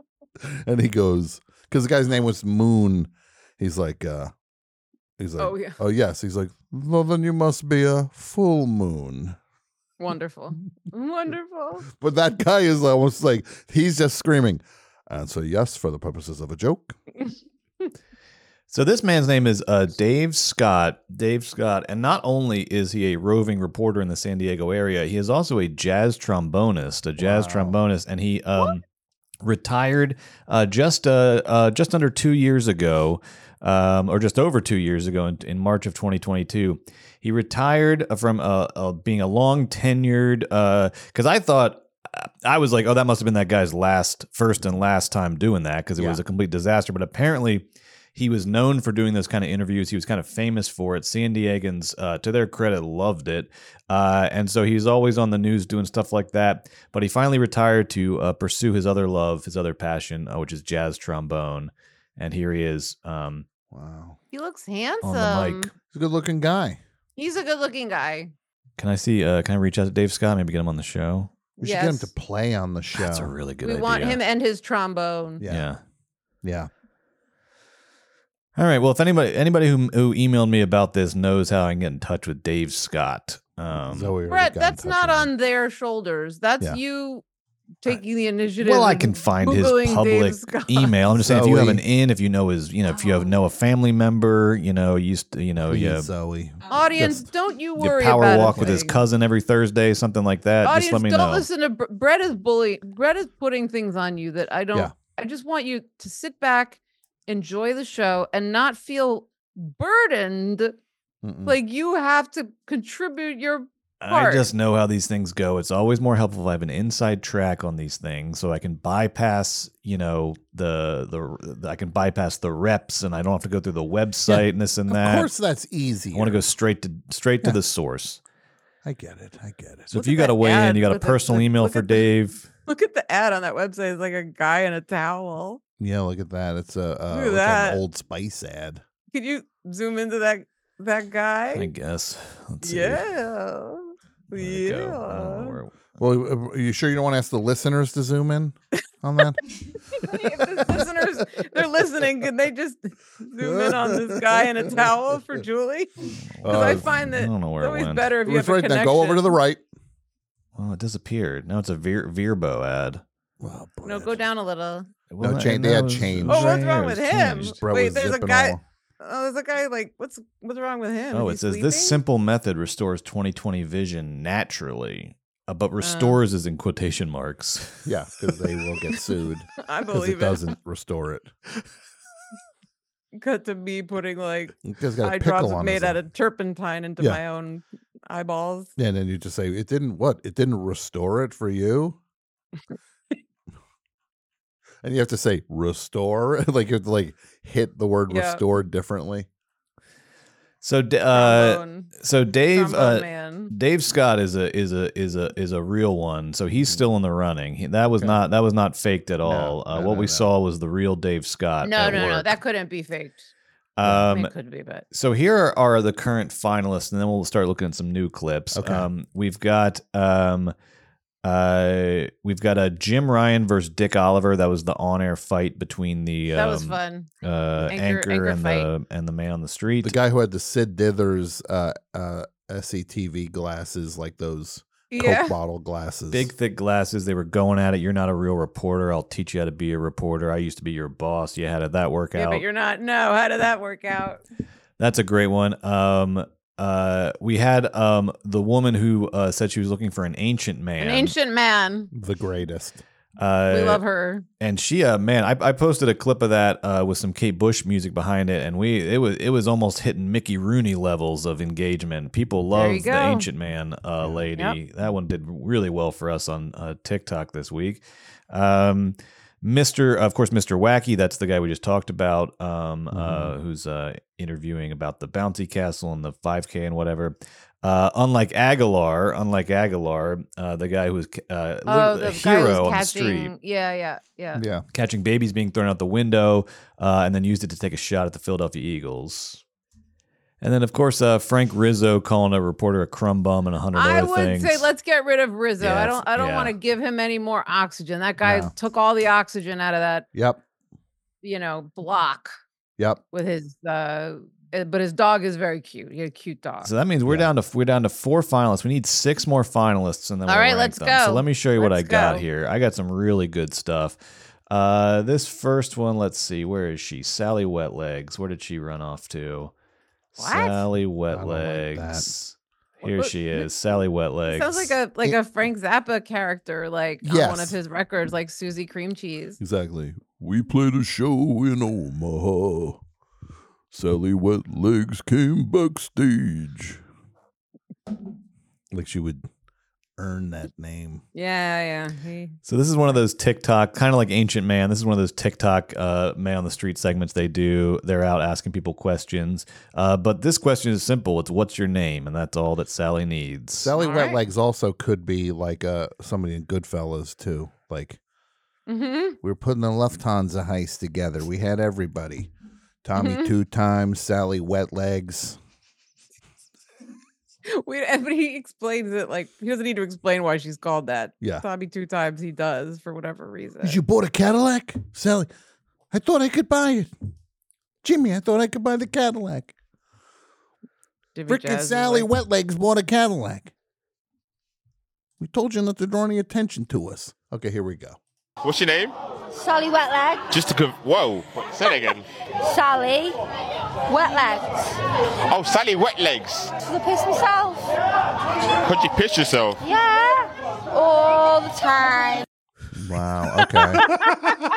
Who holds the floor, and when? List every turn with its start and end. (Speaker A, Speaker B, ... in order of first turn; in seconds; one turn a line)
Speaker A: 0.4-4.3
Speaker A: 5.2-9.3
Speaker B: 5.4-5.8
Speaker B: 10.0-11.8
Speaker A: 11.8-16.9
Speaker C: 18.7-28.8
Speaker A: 27.2-27.8
Speaker C: 29.4-63.5
Speaker A: 63.7-64.2
Speaker B: 64.3-65.7
Speaker C: 65.0-65.7
Speaker A: 65.9-66.8
Speaker B: 67.2-68.3
Speaker C: 68.8-71.3
Speaker B: 71.6-72.1
Speaker A: 71.6-73.3
Speaker C: 72.9-74.2
Speaker B: 73.6-75.4
Speaker A: 75.4-75.7
Speaker C: 75.4-75.8
Speaker A: 76.4-76.7
Speaker C: 78.5-84.1
Speaker A: 83.7-85.3
Speaker B: 84.3-87.2
Speaker B: 87.8-90.9
Speaker C: 88.6-96.1
Speaker A: 91.2-91.8
Speaker A: 95.6-97.2
Speaker B: 96.7-99.0
Speaker C: 97.8-101.5
Speaker B: 100.6-110.8
Speaker A: 111.2-111.6
Speaker B: 111.5-114.5
Speaker C: 114.0-125.3
Speaker A: 124.3-126.4
Speaker C: 126.1-128.2
Speaker A: 128.8-129.9
Speaker C: 129.9-132.5
Speaker B: 129.9-132.0
Speaker B: 132.7-135.6
Speaker A: 135.8-138.8
Speaker B: 137.1-137.8
Speaker B: 139.1-141.7
Speaker C: 141.5-143.0
Speaker B: 142.6-145.6
Speaker C: 144.3-145.9
Speaker A: 146.0-149.4
Speaker B: 150.0-155.9
Speaker A: 150.4-151.2
Speaker A: 153.4-155.0
Speaker C: 156.3-158.1
Speaker A: 156.4-156.9
Speaker B: 156.4-159.3
Speaker A: 158.2-159.6
Speaker C: 160.6-163.0
Speaker A: 163.4-164.2
Speaker B: 163.8-164.9
Speaker C: 165.1-167.6
Speaker A: 165.2-166.6
Speaker B: 166.3-172.0
Speaker A: 167.4-168.6
Speaker C: 171.1-177.8
Speaker B: 175.8-176.2
Speaker A: 177.8-181.3
Speaker B: 179.6-180.5
Speaker B: 183.1-188.7
Speaker A: 184.6-186.0
Speaker A: 188.8-192.0
Speaker A: 194.8-199.3
Speaker B: 198.1-198.4
Speaker C: 200.6-212.4
Speaker B: 201.1-201.9
Speaker B: 202.5-203.5
Speaker A: 209.2-210.3
Speaker B: 211.6-213.3
Speaker C: 213.8-214.3
Speaker A: 213.8-214.1
Speaker B: 214.1-214.8
Speaker C: 214.9-220.5
Speaker A: 218.5-218.9
Speaker C: 221.2-229.9
Speaker B: 226.3-227.1
Speaker B: 227.7-228.7
Speaker A: 229.8-236.3
Speaker B: 234.9-235.3
Speaker C: 236.1-242.4
Speaker B: 242.1-244.2
Speaker C: 244.8-251.1
Speaker B: 250.8-251.9
Speaker A: 251.9-252.8
Speaker C: 253.2-253.8
Speaker B: 253.5-254.2
Speaker C: 254.4-283.3
Speaker B: 262.5-263.2
Speaker A: 264.0-264.2
Speaker A: 272.9-273.3
Speaker B: 281.7-284.4
Speaker A: 284.3-284.6
Speaker C: 284.7-289.4
Speaker C: 290.4-294.7
Speaker B: 293.7-300.1
Speaker C: 295.6-296.5
Speaker A: 298.2-298.5
Speaker A: 300.1-300.4
Speaker B: 301.2-302.4
Speaker B: 303.1-306.7
Speaker C: 306.6-314.0
Speaker B: 310.3-312.2
Speaker C: 314.5-319.5
Speaker C: 320.1-324.7
Speaker B: 320.2-320.6
Speaker A: 321.1-322.1
Speaker B: 322.8-323.5
Speaker B: 324.3-329.4
Speaker A: 327.0-327.5
Speaker A: 329.4-332.8
Speaker A: 333.7-336.8
Speaker A: 338.7-339.3
Speaker A: 340.0-341.0
Speaker B: 341.1-342.4
Speaker C: 342.4-353.7
Speaker A: 353.6-358.0
Speaker B: 353.8-354.2
Speaker B: 358.7-359.2
Speaker A: 359.2-362.3
Speaker A: 362.8-365.4
Speaker B: 363.0-363.3
Speaker B: 367.5-373.8
Speaker A: 373.6-375.3
Speaker A: 375.9-376.9
Speaker A: 377.8-379.6
Speaker B: 381.1-382.1
Speaker A: 381.3-383.5
Speaker A: 385.2-388.0
Speaker D: 388.4-388.9
Speaker E: 389.3-390.3
Speaker D: 390.3-392.1
Speaker E: 392.4-393.2
Speaker E: 393.9-394.8
Speaker D: 395.3-396.5
Speaker E: 396.6-397.7
Speaker D: 398.6-399.6
Speaker E: 399.6-402.2
Speaker A: 402.7-403.9
Speaker B: 403.5-404.1